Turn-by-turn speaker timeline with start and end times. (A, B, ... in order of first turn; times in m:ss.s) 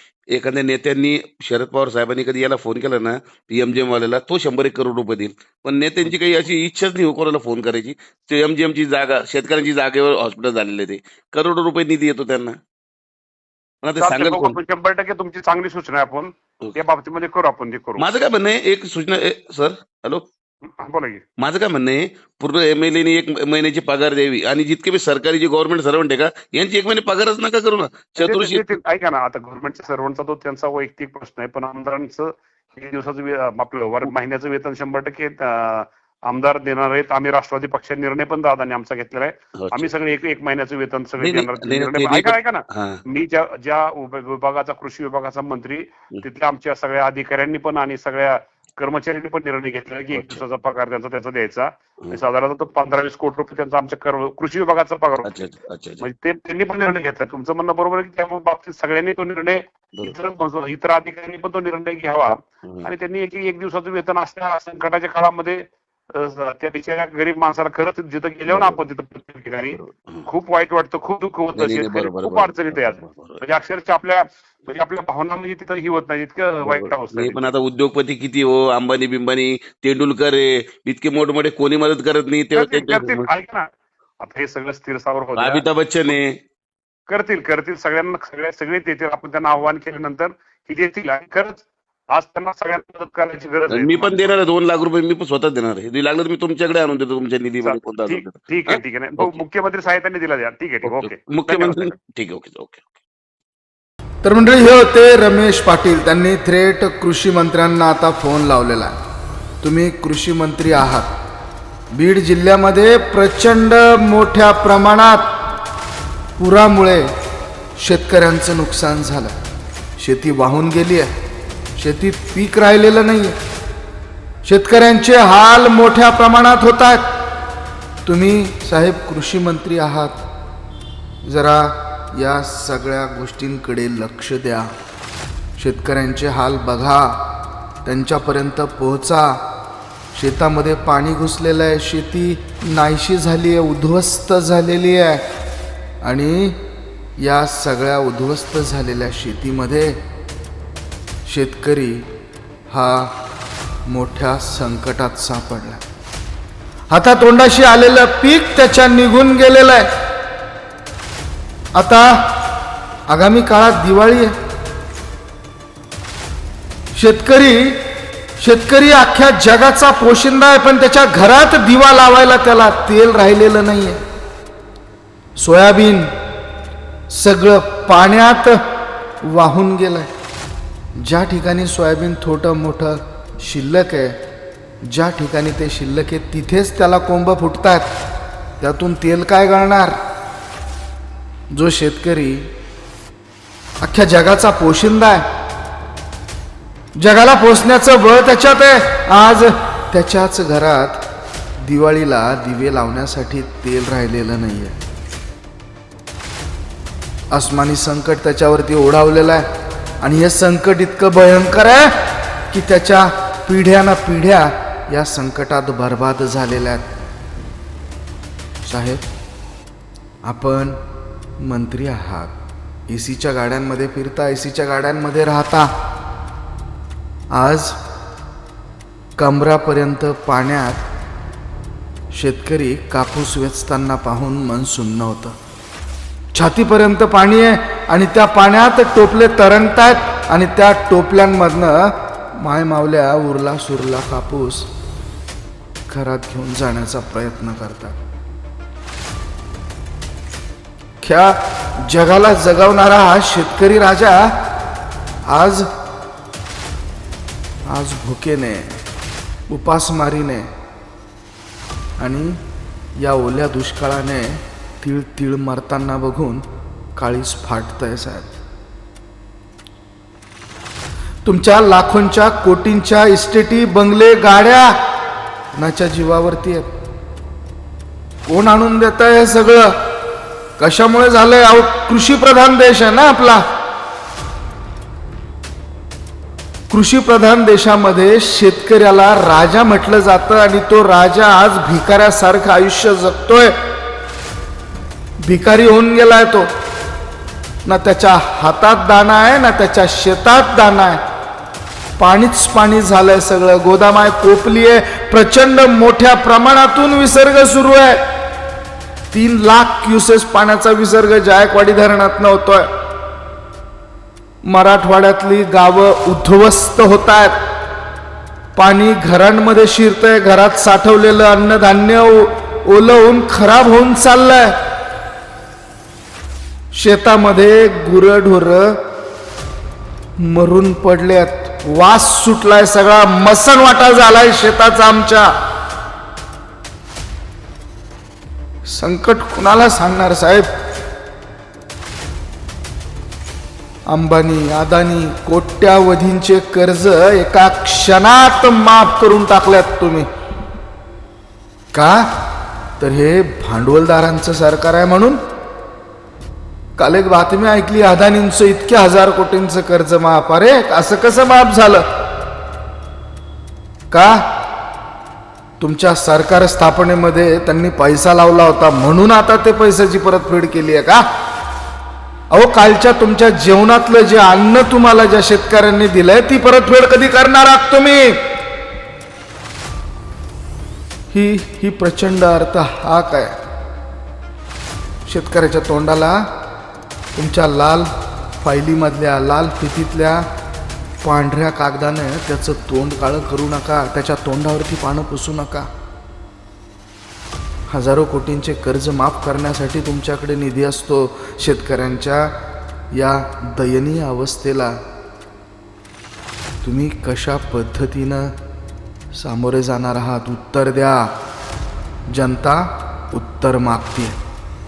0:00.3-0:12.6 A
0:13.8-0:14.6 A
0:14.0-0:18.1 B
0:18.0-0:20.2 A
0:20.8-0:21.2 B
0:21.4-0:28.6 A
0:28.2-0:55.3 B
0:39.6-0:39.9 A
0:41.2-0:43.0 A
0:50.1-0:50.4 A
0:55.2-0:56.0 A
0:56.0-1:17.5 B
1:08.5-1:08.8 A
1:09.7-1:10.2 A
1:11.6-1:13.4 A
1:16.7-1:23.3 A
1:22.5-1:23.7 B
1:24.2-1:25.6 B
1:25.4-1:26.3 A
1:27.1-1:34.3 B
1:33.7-1:39.4 A
1:37.6-1:42.0 B
1:40.8-1:42.9 A
1:44.2-1:49.0 C
1:49.6-1:51.1 C
1:51.9-1:55.2 C
1:56.4-1:57.1 C
1:57.8-1:59.4 C
2:00.0-2:01.1 C
2:01.8-2:03.4 C
2:04.4-2:07.0 C
2:08.1-2:10.2 C
2:11.2-2:14.7 C
2:15.6-2:17.2 C
2:17.9-2:19.4 C
2:20.1-2:25.2 C
2:26.0-2:26.6 C
2:27.2-2:30.0 C
2:31.3-2:32.0 C
2:32.7-2:33.1 C
2:33.9-2:35.8 C
2:36.9-2:39.9 C
2:41.8-2:42.2 C
2:43.1-2:44.3 C
2:47.0-2:47.8 C
2:48.4-2:54.0 C
2:55.4-2:56.1 C
2:57.1-2:58.6 C
2:59.2-3:00.1 C
3:01.0-3:04.2 C
3:04.8-3:07.9 C
3:08.6-3:10.0 C
3:11.5-3:12.5 C
3:13.8-3:15.2 C
3:17.0-3:21.0 C
3:21.6-3:24.8 C
3:27.3-3:29.5 C
3:30.0-3:31.9 C
3:32.5-3:37.0 C
3:38.6-3:39.0 C
3:40.2-3:40.8 C
3:41.4-3:42.3 C
3:42.9-3:45.7 C
3:47.3-3:47.8 C
3:49.2-3:50.9 C
3:52.1-3:55.4 C
3:56.3-4:04.7 C
4:05.9-4:08.0 C
4:11.0-4:14.4 C
4:15.3-4:15.7 C
4:17.7-4:18.8 C
4:19.5-4:20.5 C
4:22.0-4:22.4 C
4:23.0-4:26.4 C
4:27.0-4:28.3 C
4:31.2-4:34.8 C
4:35.6-4:36.7 C
4:38.3-4:39.8 C
4:40.6-4:43.4 C
4:46.7-4:53.5 C
4:55.2-4:56.5 C
4:57.6-5:01.0 C
5:02.0-5:08.0 C
5:09.1-5:12.7 C
5:14.4-5:17.4 C
5:18.6-5:24.5 C
5:26.7-5:28.8 C
5:30.2-5:35.3 C
5:38.7-5:40.5 C
5:43.9-5:50.1 C
5:51.7-5:52.1 C
5:52.8-5:55.2 C
5:56.8-6:01.8 C
6:03.9-6:04.2 C
6:05.6-6:11.0 C
6:12.3-6:18.2 C
6:21.1-6:23.4 C
6:25.1-6:26.3 C
6:27.2-6:27.9 C
6:28.4-6:30.3 C
6:31.0-6:35.7 C
6:37.7-6:42.3 C
6:42.9-6:44.8 C
6:46.6-6:48.3 C
6:49.1-6:51.1 C
6:52.1-6:54.2 C